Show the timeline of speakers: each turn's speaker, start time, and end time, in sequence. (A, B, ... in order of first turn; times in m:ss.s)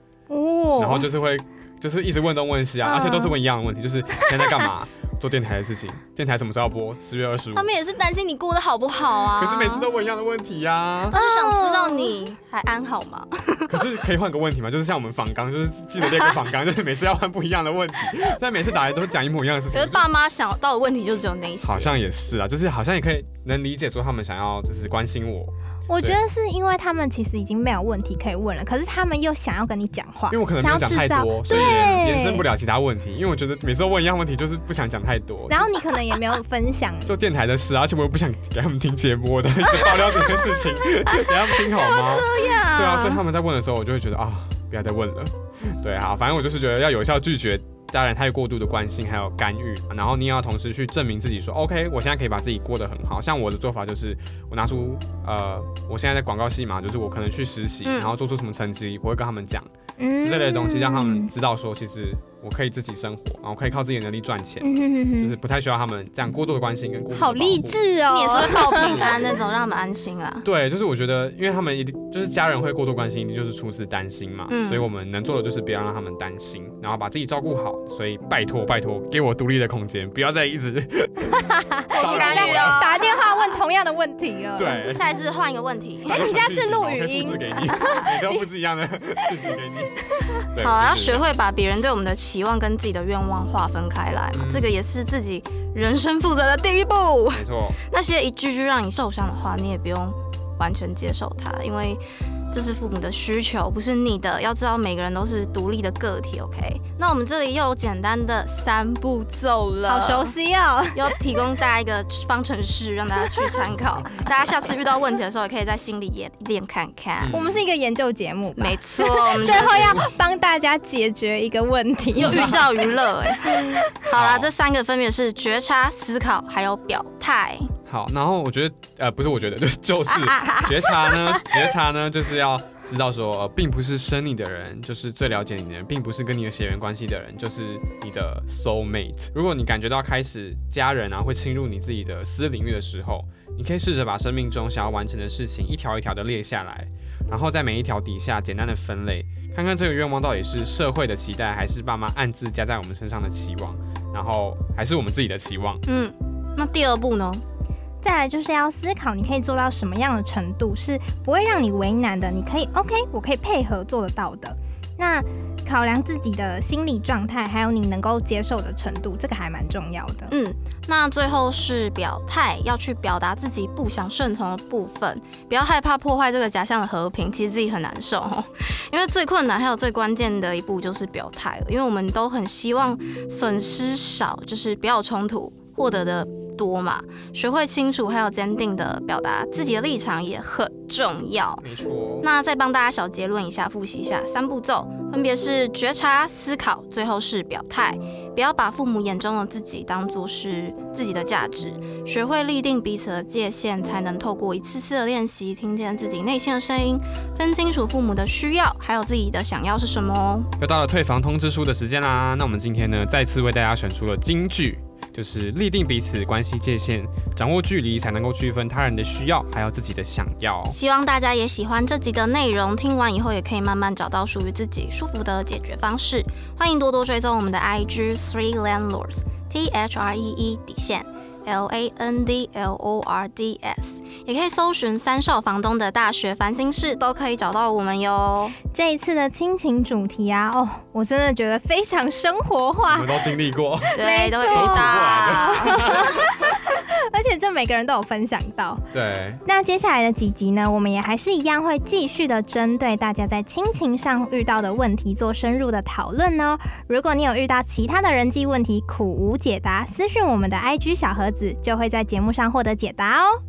0:00.3-0:01.1 A
0:00.8-0:07.7 B
0:02.8-0:03.4 C
0:04.2-0:04.7 A
0:07.5-0:09.9 C
0:09.3-0:11.2 B
0:11.1-0:13.9 C
0:11.1-0:12.2 A
0:13.7-0:20.1 B
0:19.7-0:22.0 C
0:21.6-0:26.2 B
0:25.9-0:32.4 A
0:30.3-0:35.7 B
0:31.5-0:31.8 C
0:35.5-0:37.2 A
0:37.0-0:59.7 B
0:41.1-0:43.2 C
0:57.8-0:58.1 C
1:00.0-1:01.3 A
1:00.2-1:07.8 B
1:04.6-1:05.4 A
1:07.1-1:09.0 A
1:08.1-1:10.4 C
1:08.5-1:09.3 B
1:10.4-1:22.9 B
1:14.5-1:14.9 C
1:21.3-1:24.8 A
1:21.9-1:23.6 C
1:24.5-1:25.0 B
1:24.8-1:26.2 C
1:26.0-1:31.2 B
1:26.1-1:28.4 A
1:30.6-1:50.3 C
1:34.3-1:34.8 B
1:37.3-1:37.8 B
1:49.8-1:51.2 A
1:50.9-1:57.3 C
1:57.2-1:57.6 B
1:57.3-2:02.7 A
1:58.6-2:00.0 C
1:59.4-2:00.1 B
2:02.2-2:07.7 C
2:04.1-2:04.5 B
2:07.8-2:35.8 B
2:10.2-2:10.7 C
2:35.8-2:37.4 C
2:38.0-2:50.3 A
2:50.3-3:11.6 C
3:11.6-3:12.3 B
3:12.2-3:30.5 C
3:30.6-3:40.8 B
3:40.7-3:58.6 C
3:58.7-4:03.1 A
4:02.9-4:06.5 B
4:03.9-4:06.1 C
4:04.0-4:08.8 A
4:08.9-4:09.4 B
4:09.4-4:23.4 A